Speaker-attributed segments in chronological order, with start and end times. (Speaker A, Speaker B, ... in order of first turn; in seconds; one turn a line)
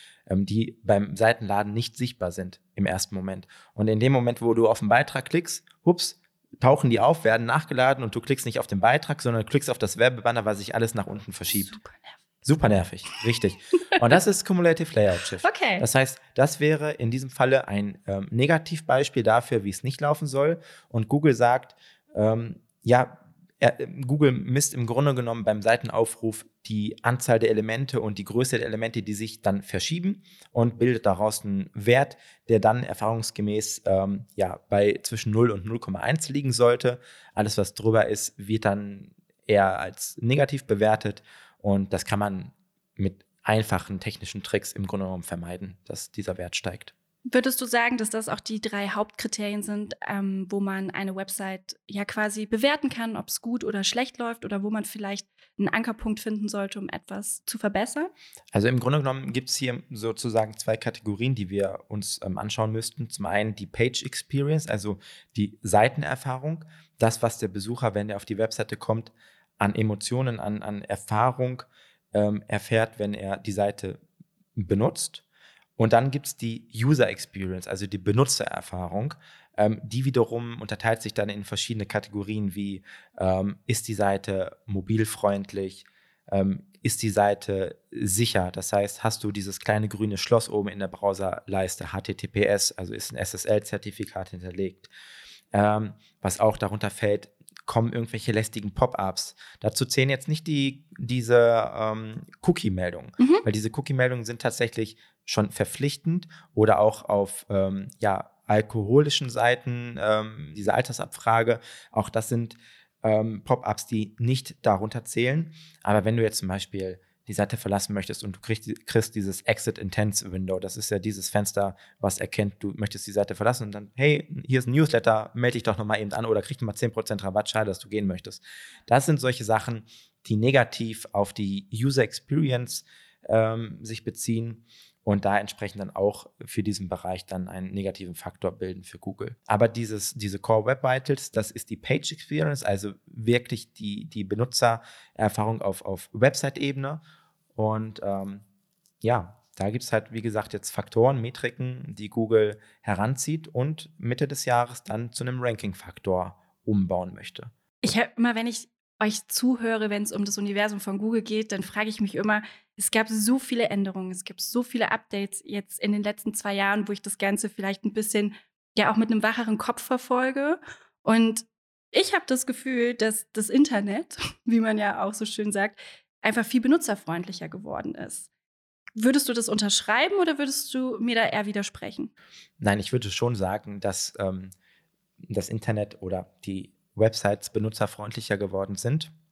Speaker A: 0.3-11.8
Speaker B: 11.5-12.2
Speaker A: 12.4-46.9
Speaker B: 15.4-15.8
Speaker B: 47.3-58.1
Speaker A: 58.5-74.0
Speaker A: 74.6-75.2
Speaker A: 75.8-94.9
Speaker A: 95.5-147.0
Speaker B: 103.2-103.5
Speaker A: 147.6-148.4
Speaker A: 149.0-157.5
Speaker B: 157.8-178.3
Speaker B: 179.0-182.1
Speaker A: 182.6-184.5
Speaker A: 185.3-189.1